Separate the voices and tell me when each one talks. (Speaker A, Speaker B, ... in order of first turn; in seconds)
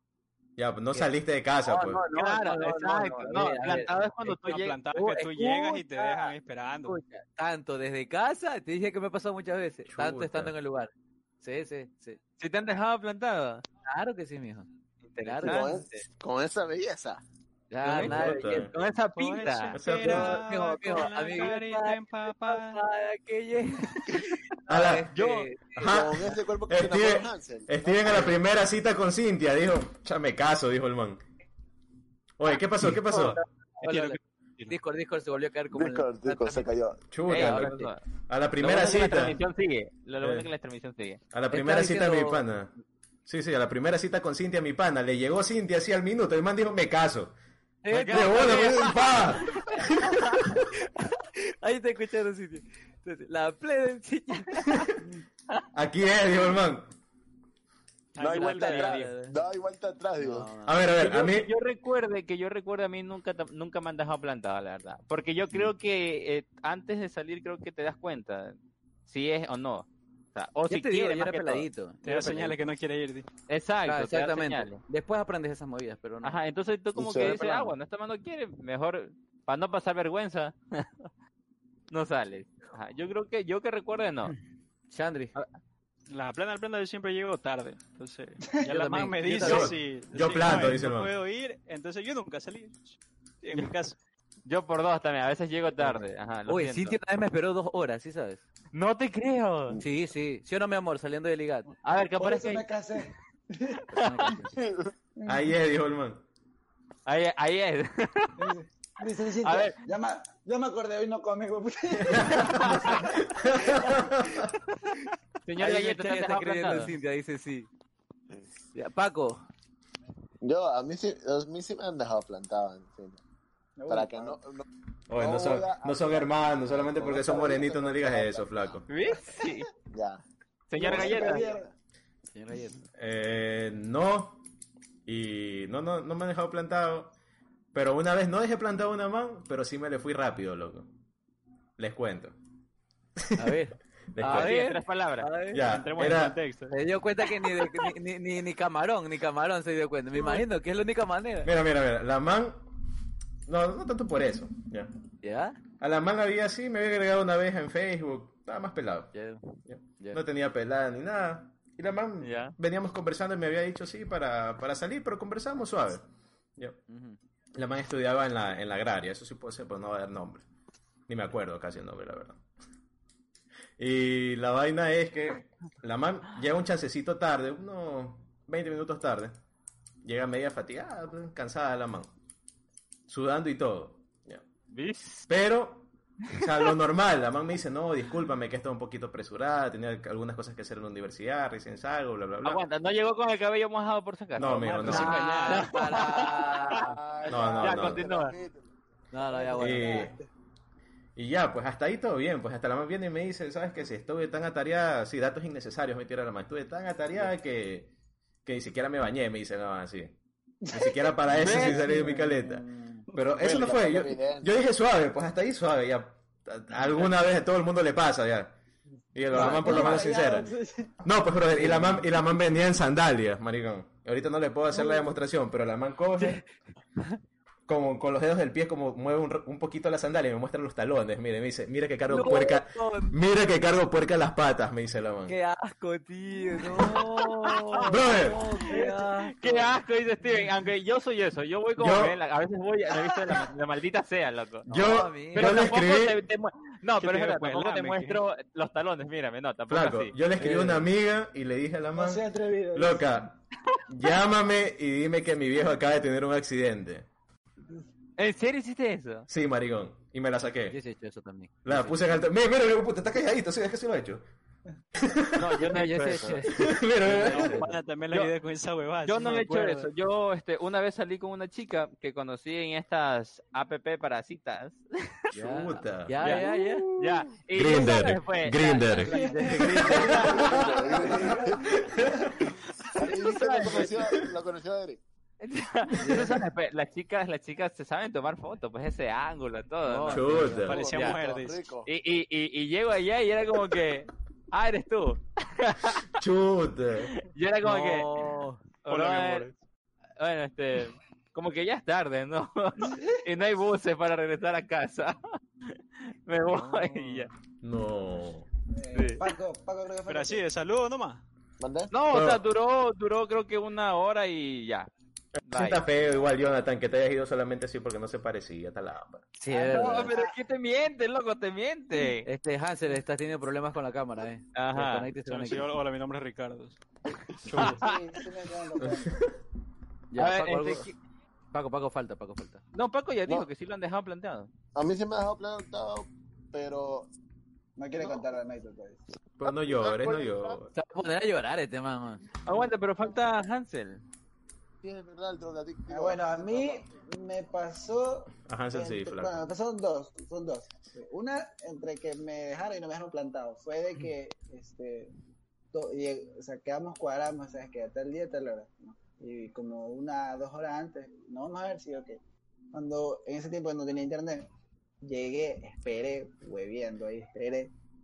Speaker A: 0.6-2.0, 9.9-10.5, 18.0-18.8, 19.7-20.4, 24.7-25.1, 25.8-31.2, 32.4-33.4, 37.1-37.7, 38.3-39.4, 40.2-40.5, 41.3-42.7, 43.3-47.3, 48.0-49.8, 55.7-56.9, 60.7-61.5, 89.4-91.2, 105.3-106.2, 112.0-114.5, 125.1-128.9, 133.0-134.4, 135.1-137.2, 137.7-140.9, 141.8-142.3, 143.2-143.5, 144.1-144.5, 145.5-146.4, 151.4-152.6, 153.5-154.9, 155.8-159.1, 159.7-166.8, 167.6-170.4, 171.1-172.4, 173.8-179.3, 180.0-182.1, 183.1-184.4, 185.3-192.6, 194.4-195.2, 197.3-198.1, 199.6-200.1, 201.2-207.9, 208.4-210.2, 210.7-212.6, 213.2-218.6, 219.1-220.5, 221.0-226.5, 227.7-235.3, 237.9-238.4, 241.8-242.2, 244.7-246.2, 249.7-252.2, 252.7-253.3, 253.9-257.1, 259.3-260.8, 261.6-264.2, 265.0-265.6, 266.5-267.6, 275.4-276.4, 277.5-279.1, 279.9-280.8, 282.0-282.3, 290.1-290.8, 296.2-297.1, 307.6-308.5, 312.1-312.4, 315.4-319.4, 327.5-327.8, 328.9-329.2, 339.4-340.7, 348.4-349.4
Speaker B: 1.6-4.1, 4.9-12.2, 13.8-14.7, 15.2-15.8, 17.7-18.7, 20.0-23.9, 24.7-26.4, 33.0-34.2, 34.7-36.7, 37.3-37.9, 41.5-42.5, 47.8-48.9, 49.8-50.6, 51.6-54.9, 58.2-59.3, 60.2-60.9, 70.7-72.7, 73.8-76.4, 77.3-77.6, 84.9-85.3, 88.7-89.7, 95.8-98.5, 99.8-101.7, 104.0-104.5, 115.6-117.7, 118.7-119.4, 132.3-132.8, 143.4-145.7, 146.7-151.5, 155.2-155.6, 159.1-159.4, 166.9-167.2, 194.9-197.0, 199.1-200.1, 211.3-213.1, 219.3-220.1, 221.5-222.1, 224.7-225.0, 226.2-226.4, 232.1-233.2, 235.3-239.8, 244.7-245.6, 250.4-250.9, 260.7-262.0, 265.7-267.8, 275.3-276.9, 277.7-281.3, 286.0-286.4, 289.9-290.7, 297.6-298.6, 319.4-320.2, 322.2-325.7, 330.1-330.9, 331.5-332.6, 340.7-342.2
Speaker C: 2.1-4.8, 12.4-13.6, 15.1-16.1, 17.8-19.8, 25.1-25.5, 37.3-38.0, 38.6-41.2, 47.9-49.6, 61.0-68.6, 69.1-71.7, 73.5-74.8, 76.2-81.1, 81.9-84.3, 94.5-97.0, 98.7-99.8, 101.8-102.7, 107.1-108.5, 109.4-109.8, 112.4-113.1, 115.4-116.9, 128.9-129.7, 130.7-131.4, 144.3-145.3, 162.2-162.6, 184.7-185.3, 192.4-196.9, 197.6-198.3, 238.7-250.2, 258.2-259.3, 265.4-266.5, 269.0-275.2, 276.2-280.5, 283.0-284.0, 285.4-290.3, 290.9-291.2, 291.9-296.1, 297.2-298.2, 298.9-299.5, 300.2-305.8, 306.3-307.3, 308.9-309.2, 311.9-314.9, 315.5-315.8, 319.6-322.3, 324.5-325.1, 327.5-327.9, 330.2-330.9, 332.7-334.5, 342.5-344.0
Speaker D: 4.2-7.0, 19.1-22.8, 33.8-34.8, 58.1-59.1, 72.0-73.3, 86.1-94.0, 145.6-146.7, 194.6-195.8, 213.1-213.4, 246.9-248.2, 267.3-269.9, 290.7-291.6, 298.9-299.6, 306.5-307.3, 310.1-311.2, 325.2-326.8
Speaker E: 15.4-17.2, 25.9-28.3, 35.7-37.0, 58.2-60.5, 77.0-77.7, 104.5-104.9, 120.4-123.2, 123.9-128.8, 129.9-130.2, 130.8-131.8, 196.8-198.7, 213.4-214.5, 280.3-281.9, 282.9-285.0, 290.5-291.9, 311.6-311.9, 334.8-337.1, 338.0-338.3, 339.4-340.6, 344.8-347.0
Speaker F: 102.2-104.1, 105.2-105.5, 108.4-114.0, 123.8-124.4, 130.8-131.7, 199.3-200.3, 210.7-212.1, 219.3-221.0, 251.9-253.1, 279.1-282.2, 302.8-303.2, 308.7-310.4, 319.5-320.4, 327.5-329.2, 337.8-339.2, 345.9-355.1, 355.7-362.2, 362.7-364.5, 365.0-367.7